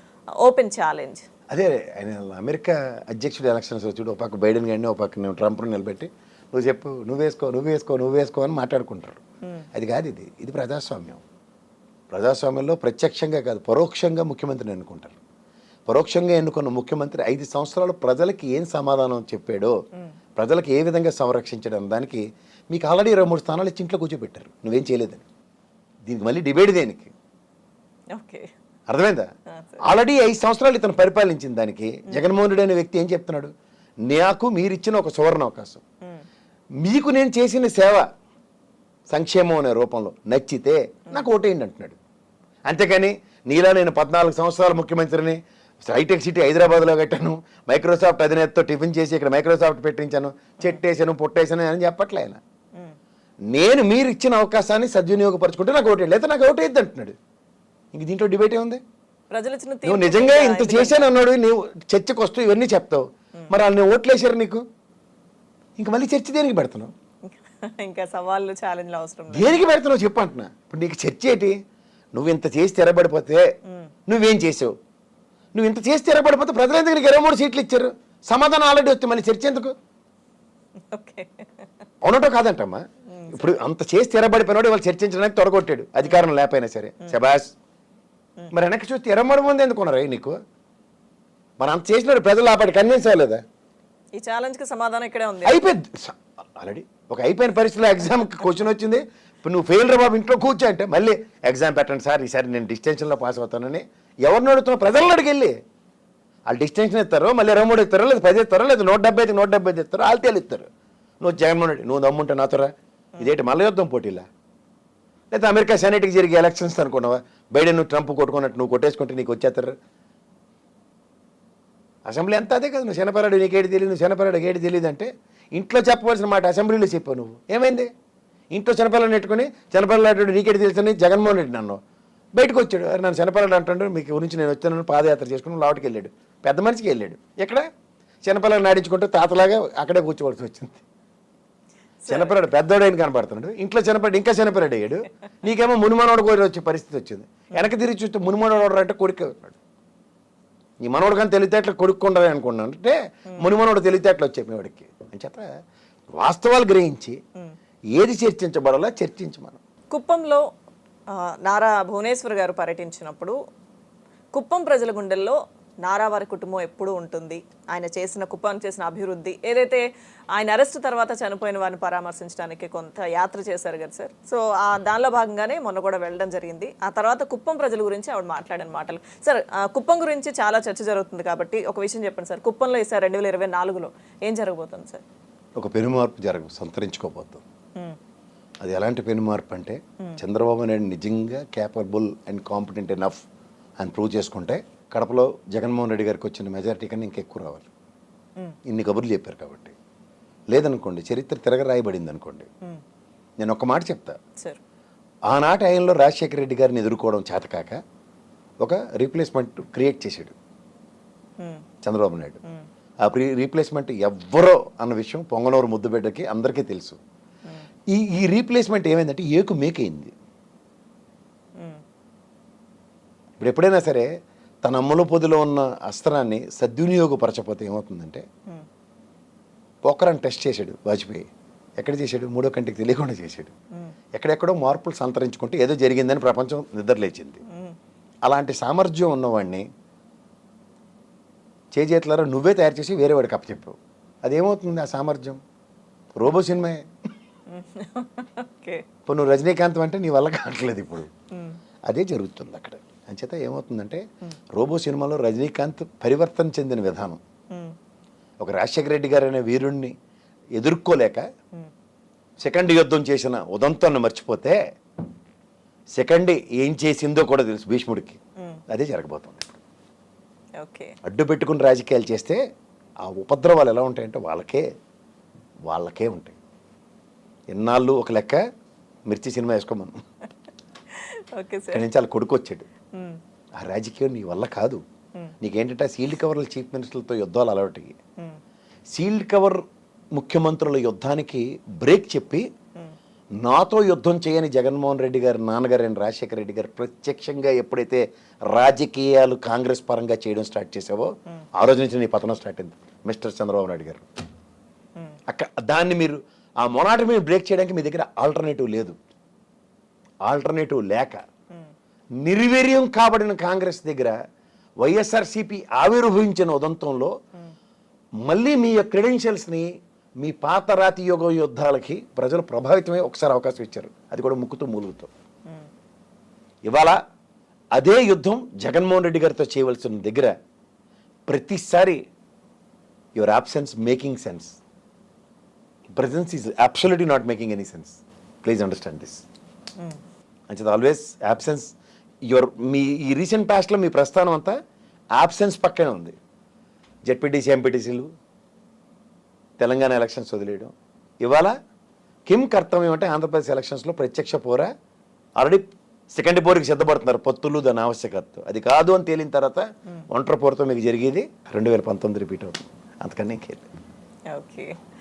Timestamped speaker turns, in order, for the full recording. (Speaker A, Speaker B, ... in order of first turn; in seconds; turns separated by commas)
Speaker A: 0.4-1.2, Speaker B: 1.5-9.2, Speaker B: 9.7-11.2, Speaker B: 12.1-15.2, Speaker B: 15.9-19.8, Speaker B: 20.4-25.2, Speaker B: 26.1-27.1, Speaker A: 28.1-28.5, Speaker B: 28.9-29.3, Speaker A: 29.5-29.8, Speaker B: 29.8-33.5, Speaker B: 34.0-35.8, Speaker B: 36.8-38.1, Speaker B: 39.1-42.0, Speaker B: 42.6-52.4, Speaker B: 53.5-57.1, Speaker B: 57.9-58.8, Speaker A: 59.3-61.1, Speaker B: 59.8-64.6, Speaker B: 65.8-66.9, Speaker A: 67.3-69.6, Speaker B: 69.3-71.5, Speaker B: 72.1-73.5, Speaker B: 74.1-74.7, Speaker B: 75.5-79.7, Speaker A: 80.9-81.7, Speaker B: 82.0-87.5, Speaker A: 83.1-83.5, Speaker B: 88.5-90.4, Speaker B: 91.6-93.4, Speaker A: 94.2-95.8, Speaker B: 95.4-105.5, Speaker B: 106.5-110.7, Speaker B: 111.2-114.2, Speaker B: 115.3-119.7, Speaker B: 122.0-127.9, Speaker B: 128.5-131.8, Speaker B: 132.3-137.7, Speaker B: 138.2-140.8, Speaker A: 142.0-142.4, Speaker B: 142.1-149.6, Speaker B: 150.8-155.4, Speaker B: 156.2-157.2, Speaker B: 157.9-159.6, Speaker A: 159.9-160.4, Speaker A: 161.4-163.3, Speaker A: 164.3-169.8, Speaker A: 170.3-185.0, Speaker B: 185.6-187.4, Speaker B: 188.6-193.2, Speaker B: 193.8-197.7, Speaker B: 198.7-199.7, Speaker B: 200.5-202.5, Speaker B: 203.4-204.2, Speaker B: 205.3-207.8, Speaker B: 208.6-210.3, Speaker A: 211.4-211.6, Speaker B: 211.8-212.4, Speaker B: 213.0-217.0, Speaker B: 217.9-220.1, Speaker A: 221.6-221.8, Speaker B: 223.4-224.1, Speaker B: 224.6-228.2, Speaker B: 229.8-231.3, Speaker B: 231.8-233.5, Speaker B: 234.1-237.4, Speaker A: 237.5-237.8, Speaker B: 238.2-239.7, Speaker B: 241.7-245.4, Speaker B: 246.1-246.8, Speaker A: 247.5-248.8, Speaker B: 249.1-251.1, Speaker B: 251.9-254.0, Speaker B: 254.5-257.2, Speaker B: 258.4-259.9, Speaker B: 260.6-261.2, Speaker B: 262.4-264.6, Speaker B: 265.9-269.6, Speaker A: 270.6-270.9, Speaker B: 271.0-272.4, Speaker B: 273.0-274.7, Speaker B: 275.7-276.4, Speaker B: 277.5-278.4, Speaker B: 279.1-279.9, Speaker A: 280.9-281.9, Speaker B: 281.7-282.7, Speaker A: 282.9-283.2, Speaker B: 283.6-284.8, Speaker B: 285.4-288.0, Speaker B: 288.9-289.6, Speaker B: 290.1-292.5, Speaker B: 293.4-304.1, Speaker B: 305.3-309.0, Speaker B: 310.2-311.2, Speaker B: 312.2-314.1, Speaker B: 314.8-317.1, Speaker B: 318.2-325.1, Speaker B: 326.6-327.0, Speaker B: 327.7-330.3, Speaker B: 331.3-332.0, Speaker B: 333.1-334.6, Speaker B: 335.9-339.2, Speaker B: 340.5-341.7, Speaker B: 342.2-344.6, Speaker B: 345.1-346.1, Speaker B: 347.1-348.1, Speaker B: 349.6-351.6, Speaker B: 352.3-354.7, Speaker B: 355.4-363.6, Speaker A: 364.3-364.7